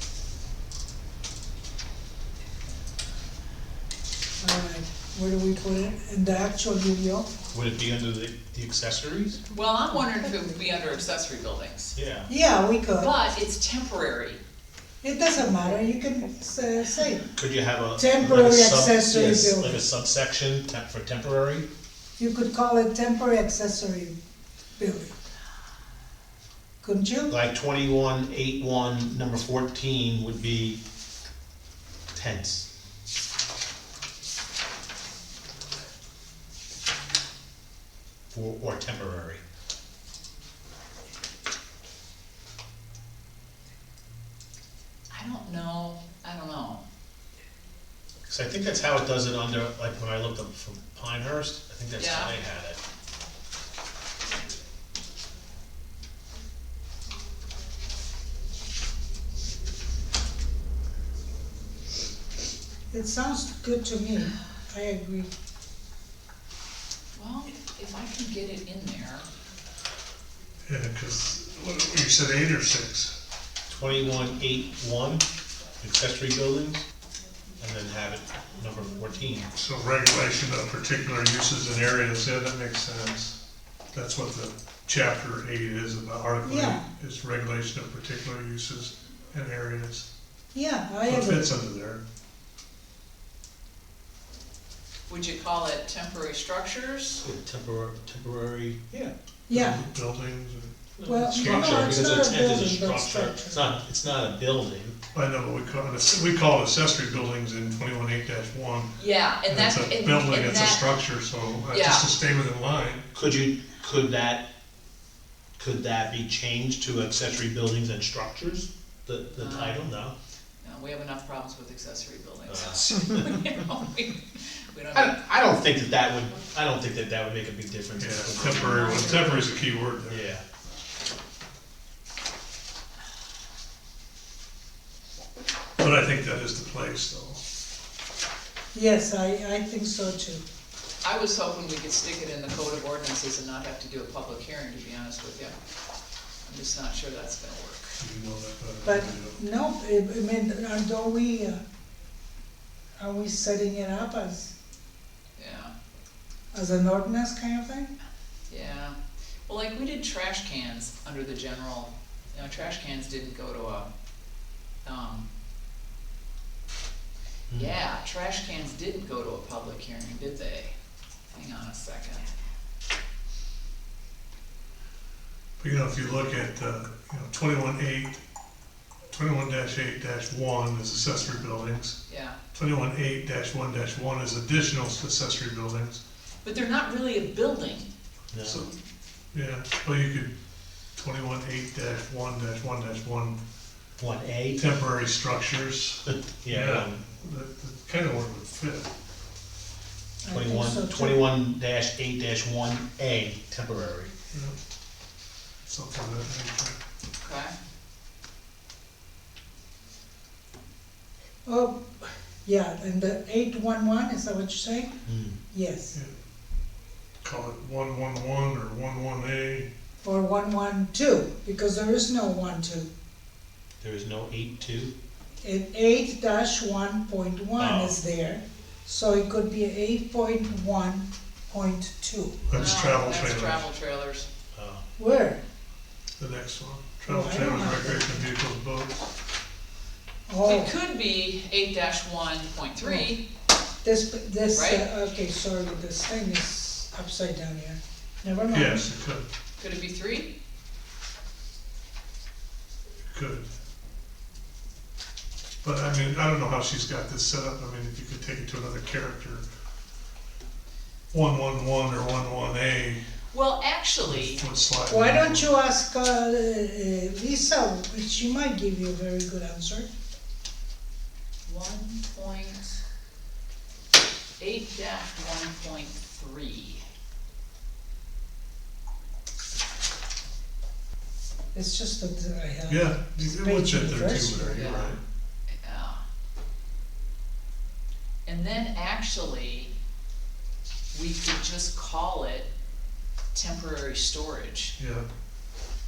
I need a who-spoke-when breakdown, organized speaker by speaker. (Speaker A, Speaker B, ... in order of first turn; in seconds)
Speaker A: 4.4-7.3, 12.3-13.1, 15.0-17.3, 18.0-19.8, 22.2-24.2, 24.8-25.1, 26.8-27.3, 62.9-65.3, 86.4-86.8, 90.5-91.5, 99.5-99.8, 101.1-103.7, 128.8-129.1, 138.7-140.4, 148.8-151.6, 153.0-154.5, 156.5-157.9, 200.2-201.3, 211.4-214.9, 215.5-215.9, 220.0-222.9, 225.4-232.4, 235.0-235.4, 237.1-238.3, 240.3-240.8, 242.8-243.1, 243.8-248.9, 264.9-269.9, 281.5-284.7
Speaker B: 7.5-9.4, 11.9-12.3, 17.4-21.7, 27.3-30.8, 32.1-32.7, 38.3-39.4, 48.3-52.8, 73.7-75.3, 75.8-76.9, 77.6-79.5, 97.2-99.1, 101.0-105.0, 113.1-114.5, 115.6-120.2, 122.5-123.2, 124.9-129.0, 130.1-130.4, 188.3-188.7, 194.0-194.6, 196.1-197.0, 200.3-204.1, 215.1-215.4, 223.8-224.9, 227.6-228.0, 234.5-234.8
Speaker C: 9.5-12.0, 12.9-14.4, 45.1-46.9, 52.0-52.4, 67.2-69.3, 95.1-97.2, 109.0-110.9, 111.7-112.1, 119.3-119.8, 120.6-125.2, 128.7-129.4, 141.0-145.6, 146.4-148.0, 155.4-155.7, 158.5-163.9, 164.8-165.3, 167.5-170.7, 171.3-172.3, 182.1-182.4, 186.4-187.9, 207.2-207.6, 232.5-234.3, 240.4-243.2, 244.5-244.9, 249.6-250.3, 263.3-264.4, 271.4-272.8, 274.4-276.8, 284.5-285.0, 285.6-286.0, 288.3-289.7, 290.9-292.5, 293.3-294.8
Speaker D: 70.7-73.2, 79.5-83.4, 83.9-90.1, 91.0-92.0, 99.5-102.2, 105.1-108.9, 109.5-113.0, 128.0-130.3, 135.8-137.4, 148.0-149.4, 175.6-178.2, 179.1-182.0, 182.5-186.0, 188.4-188.7, 189.3-190.3, 190.9-193.4, 194.6-198.9, 204.3-204.6, 205.7-206.8, 217.2-219.7, 232.5-233.7, 236.2-239.1, 248.5-249.3, 253.1-253.5, 255.6-259.5, 261.1-263.0, 264.1-265.5, 282.7-285.0, 294.8-295.1